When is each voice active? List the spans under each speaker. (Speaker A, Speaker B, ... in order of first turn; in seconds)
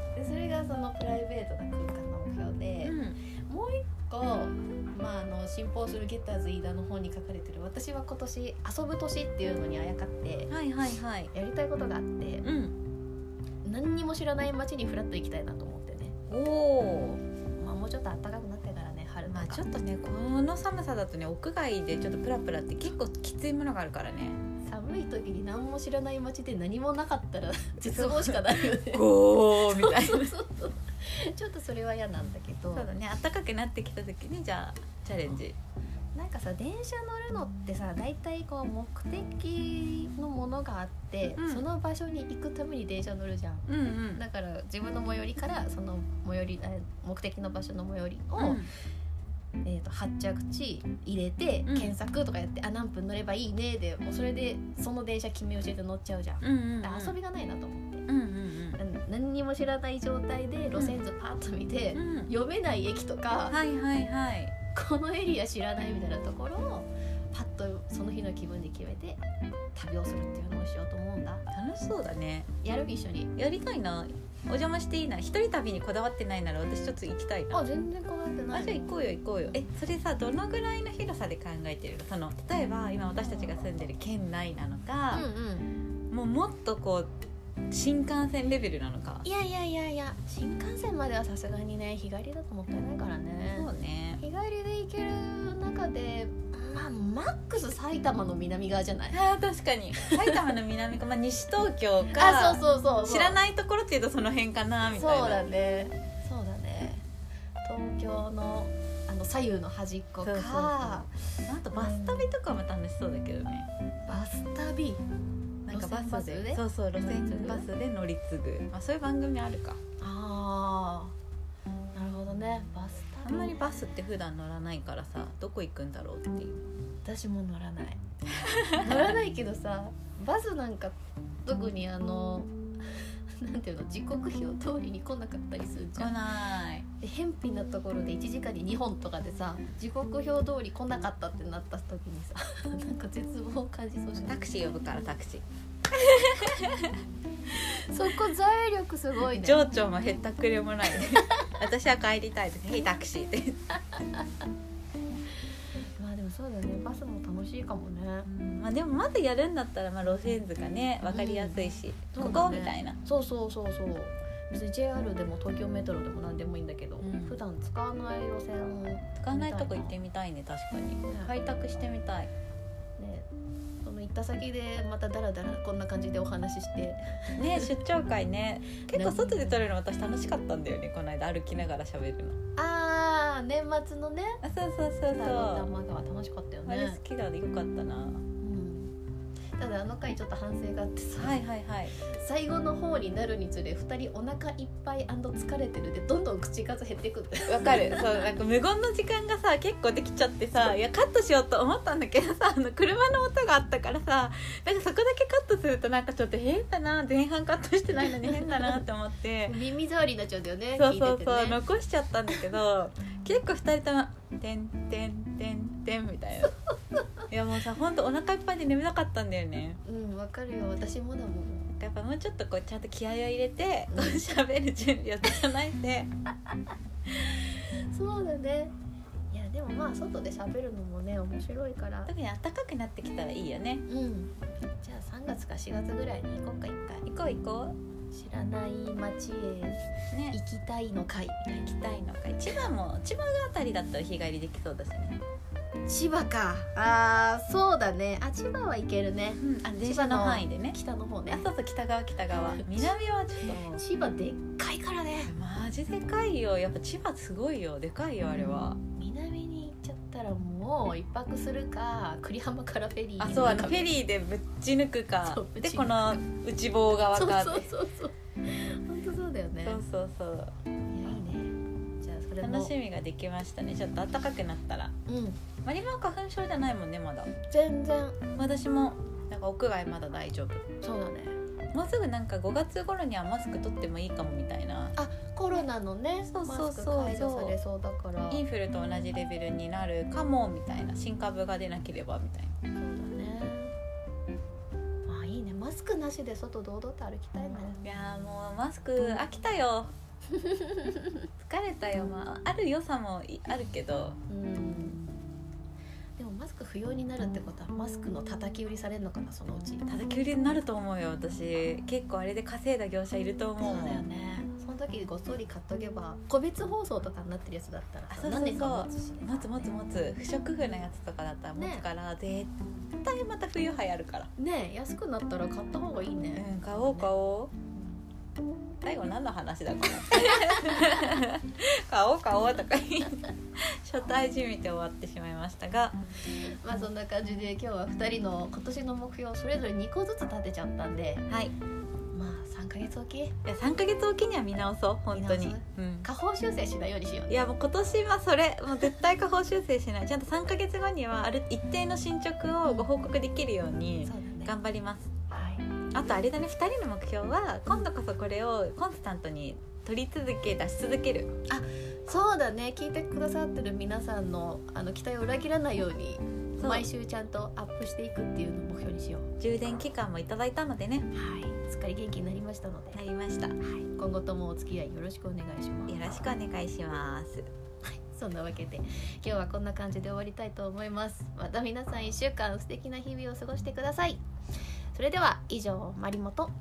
Speaker A: 0.1-10.5, 11.3-12.4, 13.6-16.1, 17.6-19.6, 24.6-32.9, 36.1-48.7, 49.6-58.1, 58.8-63.6, 64.7-69.2, 69.7-71.4, 72.6-73.3, 77.5-78.9, 85.1-85.7, 89.2-93.7, 94.2-99.2, 100.0-100.4, 102.1-103.4, 104.9-107.0, 107.6-111.1, 111.7-112.3, 114.1-115.0, 115.7-117.7, 120.0-121.1, 121.9-123.6, 127.0-128.0, 128.7-136.2, 137.0-144.4, 147.5-149.7, 150.9-151.5, 153.9-154.2, 156.0-158.3, 161.1-161.6, 162.1-169.9, 171.1-171.3, 173.0-173.3, 173.8-177.7, 178.9-179.6, 182.6-184.4, 185.1-187.0, 188.4-188.9, 189.6-191.4, 192.0-198.2, 208.0-208.8, 209.4-211.6, 219.8-221.7, 223.9-224.4, 227.1-228.7, 229.3-232.1, 233.9-237.1, 238.1-241.8, 245.8-251.4, 252.6-255.3, 258.3-263.9, 265.2-266.2, 267.1-269.8, 270.9-272.7, 275.1-275.4, 277.5-278.2, 280.8-281.4, 284.9-288.4, 292.8-293.7, 295.1-297.9, 300.4-301.1, 304.3-305.0, 306.2-310.0, 313.6-319.8, 321.6-321.8, 324.4-327.1, 327.7-328.0, 336.3-341.2, 342.1-343.3, 345.1-347.4, 352.6-352.9, 354.0-354.5, 355.3-355.7, 361.5-369.3, 371.1-373.0, 373.6-376.0, 377.8-384.2, 384.9-386.5
Speaker B: 2.8-3.2, 10.5-11.3, 12.4-12.8, 16.3-17.2, 19.2-24.4, 27.9-30.3, 32.7-35.5, 41.4-41.6, 43.7-44.2, 48.4-48.7, 51.6-51.9, 56.4-57.1, 58.1-58.8, 60.7-61.0, 61.9-62.3, 63.5-64.5, 71.5-72.5, 73.3-77.6, 78.5-85.3, 86.1-87.1, 87.7-89.2, 93.5-94.2, 99.1-105.4, 110.2-113.7, 115.7-119.8, 123.2-126.6, 128.4-129.1, 136.0-136.8, 144.2-147.0, 149.3-153.6, 158.2-163.0, 167.0-167.4, 169.2-172.3, 177.3-182.3, 184.4-185.7, 186.7-188.2, 191.2-191.9, 197.5-209.6, 210.8-216.6, 217.3-219.8, 221.7-226.1, 232.1-233.8, 237.1-237.8, 240.1-240.4, 241.6-245.2, 249.4-250.8, 251.3-253.8, 255.2-258.8, 263.2-267.7, 269.6-270.5, 272.4-274.9, 275.6-277.3, 278.3-280.6, 281.7-284.9, 286.3-287.6, 288.3-292.5, 297.8-299.9, 301.4-304.1, 309.9-314.0, 318.1-324.3, 326.3-327.5, 328.8-336.0, 341.3-341.5, 343.4-346.1, 347.3-355.1, 355.9-361.3, 366.6-366.9, 369.4-371.1, 372.9-373.6, 375.9-377.5